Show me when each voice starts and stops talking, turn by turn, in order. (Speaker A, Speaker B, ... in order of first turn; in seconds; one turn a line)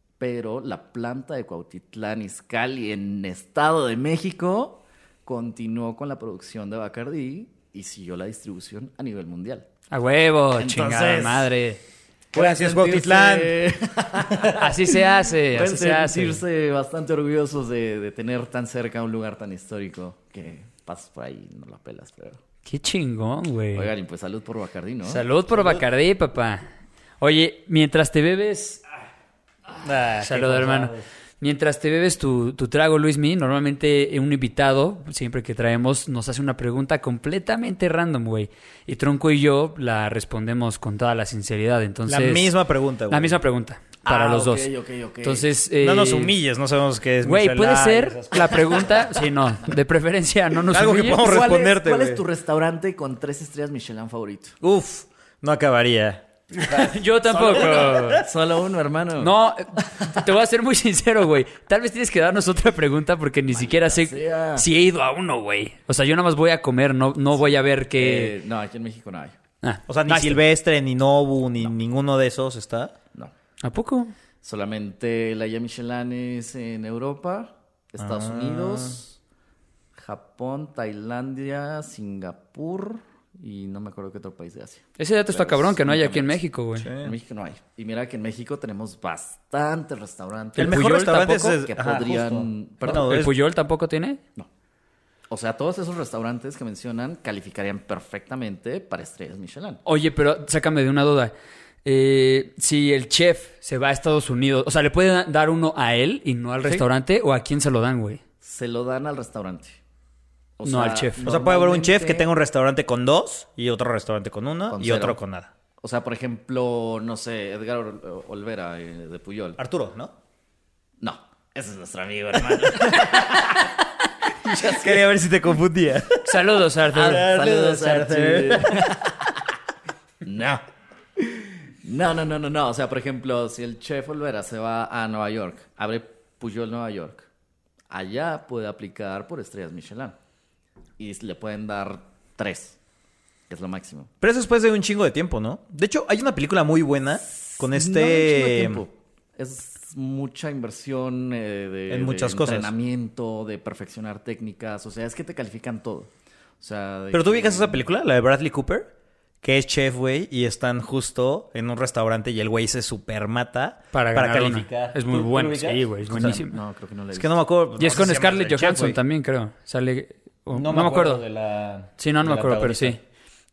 Speaker A: 0.2-9.7
Speaker B: 9.9-11.8
Speaker A: 10.6-11.5
Speaker A: 12.3-22.4
Speaker C: 12.3-13.7
Speaker B: 14.6-16.4
Speaker B: 22.6-23.9
Speaker A: 23.7-25.2
Speaker B: 25.0-26.6
Speaker C: 25.6-25.8
Speaker B: 27.2-28.8
Speaker C: 29.8-31.1
Speaker B: 30.2-42.5
Speaker C: 42.1-43.4
Speaker B: 43.1-44.7
Speaker A: 44.0-45.5
Speaker B: 45.2-46.3
Speaker C: 45.8-49.2
Speaker B: 47.2-51.3
Speaker C: 50.7-52.2
Speaker A: 51.2-54.6
Speaker C: 54.6-56.9
Speaker B: 56.6-58.2
Speaker A: 57.3-60.2
Speaker C: 57.5-58.2
Speaker B: 59.2-68.3
Speaker A: 63.5-64.7
Speaker A: 68.0-69.4
Speaker B: 69.6-70.4
Speaker C: 69.9-72.9
Speaker B: 73.6-74.1
Speaker A: 74.4-79.2
Speaker C: 78.0-79.0
Speaker A: 80.0-86.4
Speaker B: 85.0-86.9
Speaker C: 86.8-87.2
Speaker A: 86.9-93.2
Speaker B: 90.6-91.6
Speaker C: 90.6-93.3
Speaker B: 92.8-94.2
Speaker A: 95.3-99.8
Speaker B: 99.8-101.3
Speaker B: 101.8-108.2
Speaker A: 108.4-109.8
Speaker A: 110.6-112.3
Speaker B: 110.7-111.2
Speaker C: 111.2-115.5
Speaker A: 114.7-115.2
Speaker A: 115.8-119.6
Speaker C: 119.6-120.2
Speaker A: 121.0-123.7
Speaker A: 124.4-125.1
Speaker C: 124.5-126.4
Speaker B: 126.2-127.3
Speaker C: 126.9-128.9
Speaker A: 127.0-129.5
Speaker A: 130.2-130.6
Speaker A: 131.2-137.3
Speaker A: 137.9-140.2
Speaker A: 141.0-142.8
Speaker A: 143.5-144.1
Speaker C: 144.2-148.8
Speaker A: 147.2-157.9
Speaker C: 151.9-152.7
Speaker C: 157.1-158.9
Speaker C: 159.4-166.4
Speaker B: 163.9-166.6
Speaker A: 166.1-167.4
Speaker C: 167.1-169.0
Speaker B: 167.8-171.2
Speaker C: 170.5-173.0
Speaker B: 172.0-173.0